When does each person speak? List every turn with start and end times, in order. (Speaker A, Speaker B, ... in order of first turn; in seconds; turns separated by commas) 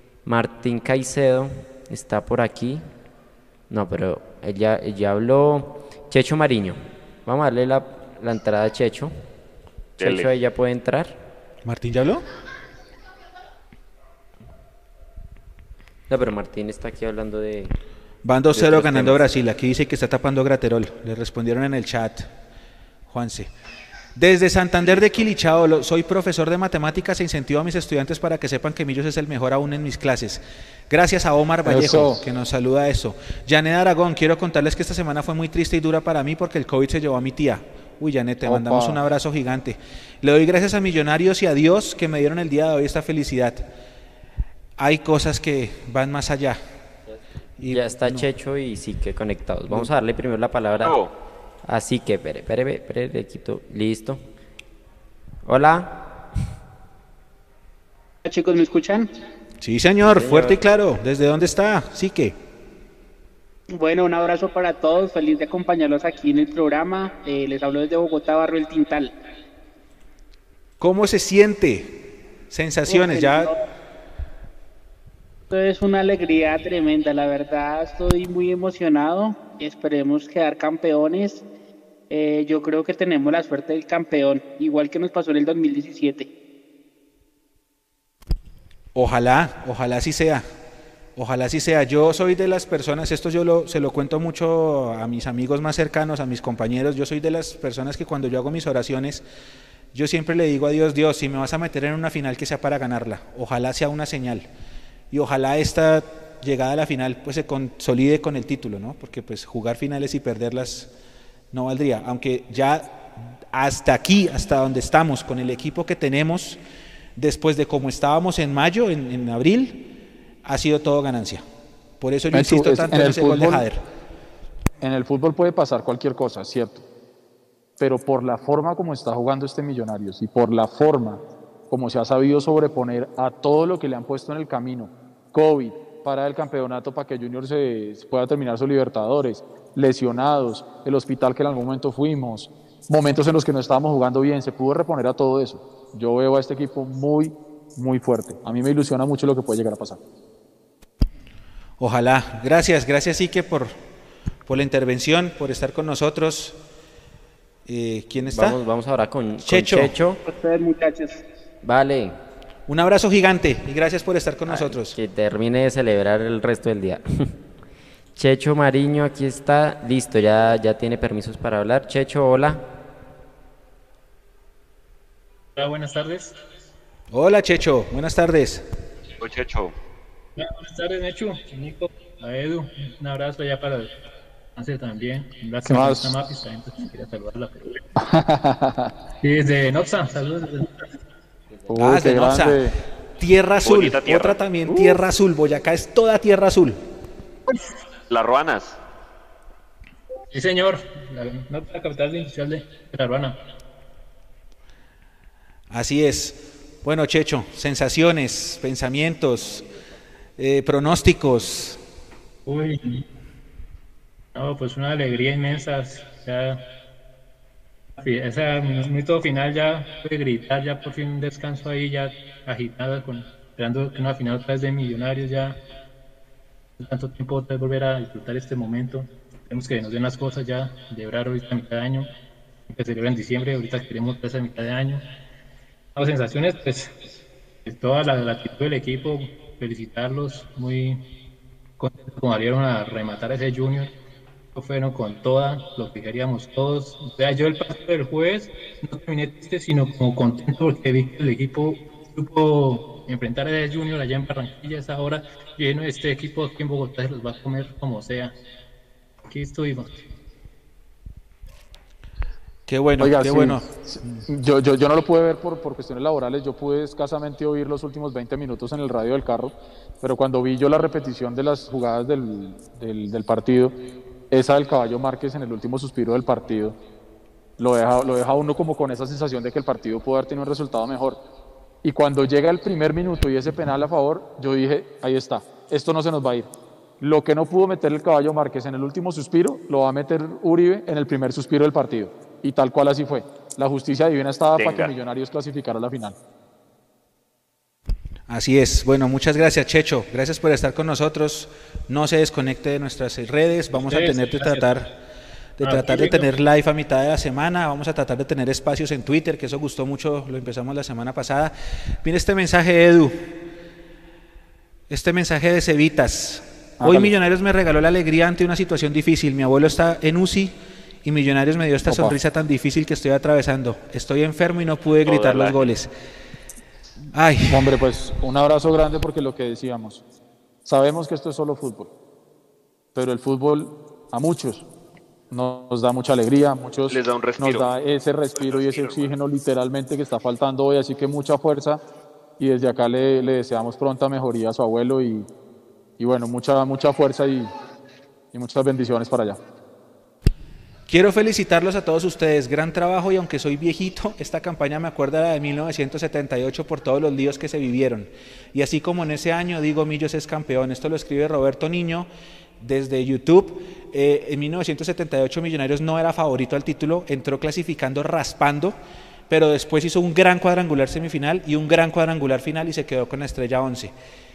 Speaker A: 0.2-2.8, Speaker A: 3.7-9.1, Speaker B: 10.0-10.3, Speaker A: 10.0-11.2, Speaker C: 11.6-12.2, Speaker A: 16.1-17.7, Speaker C: 18.2-22.3, Speaker A: 18.5-19.2, Speaker C: 23.1-23.5, Speaker C: 24.1-43.6, Speaker D: 31.6-32.2, Speaker D: 38.4-39.0, Speaker C: 44.8-46.6, Speaker C: 47.6-48.3, Speaker A: 47.7-51.0, Speaker B: 50.8-51.1, Speaker A: 51.6-54.2, Speaker A: 55.4-56.0, Speaker E: 58.2-59.1, Speaker C: 59.6-62.3, Speaker A: 60.0-60.6, Speaker E: 63.7-69.1, Speaker C: 70.8-73.5, Speaker E: 72.9-73.6, Speaker E: 75.5-81.4, Speaker E: 82.1-86.3, Speaker C: 88.9-90.5, Speaker C: 91.2-99.2, Speaker C: 99.9-104.5, Speaker C: 105.1-110.9, Speaker C: 111.5-116.6, Speaker C: 117.2-119.8, Speaker C: 120.4-121.4, Speaker C: 122.0-123.8, Speaker D: 122.3-123.6, Speaker D: 124.8-126.8, Speaker D: 127.8-150.0, Speaker C: 151.8-153.8, Speaker C: 154.5-156.6, Speaker C: 157.7-158.6, Speaker A: 158.3-160.2, Speaker C: 159.4-159.9, Speaker E: 160.2-161.2, Speaker A: 161.6-162.2, Speaker C: 162.7-164.9, Speaker A: 164.5-167.3, Speaker A: 168.2-172.6, Speaker F: 175.6-176.3, Speaker C: 177.1-178.6, Speaker B: 179.2-179.7, Speaker F: 180.3-183.9, Speaker F: 184.6-187.8, Speaker D: 185.6-186.1, Speaker D: 188.0-188.9, Speaker F: 189.2-190.8, Speaker D: 191.7-192.7, Speaker C: 191.8-192.6, Speaker C: 193.2-196.8, Speaker B: 193.6-194.4, Speaker B: 198.1-198.8, Speaker F: 200.3-203.4, Speaker C: 205.7-209.7, Speaker C: 210.4-211.8, Speaker F: 212.4-213.0, Speaker F: 214.3-216.6, Speaker F: 218.0-225.6, Speaker F: 226.8-232.1, Speaker F: 232.7-235.0, Speaker F: 235.9-236.9, Speaker F: 237.6-241.0, Speaker F: 241.8-243.9, Speaker F: 244.5-258.3, Speaker F: 259.2-260.0, Speaker C: 262.7-263.7, Speaker D: 263.0-273.8, Speaker D: 274.3-276.8, Speaker D: 277.6-281.2, Speaker D: 281.8-296.1, Speaker B: 294.6-294.9, Speaker C: 298.3-304.9, Speaker F: 303.7-304.7, Speaker C: 305.6-313.4, Speaker F: 305.6-306.3, Speaker C: 314.9-325.9, Speaker D: 316.8-317.1, Speaker D: 321.9-322.1, Speaker B: 325.0-325.6, Speaker C: 327.1-327.6, Speaker D: 327.5-330.0, Speaker D: 330.6-331.9, Speaker D: 332.9-334.6, Speaker D: 335.3-341.8, Speaker B: 336.9-337.7, Speaker B: 338.3-339.1, Speaker D: 342.4-345.3, Speaker D: 346.0-347.5, Speaker D: 348.3-349.4, Speaker C: 350.9-362.1, Speaker C: 362.6-368.8, Speaker C: 369.3-373.9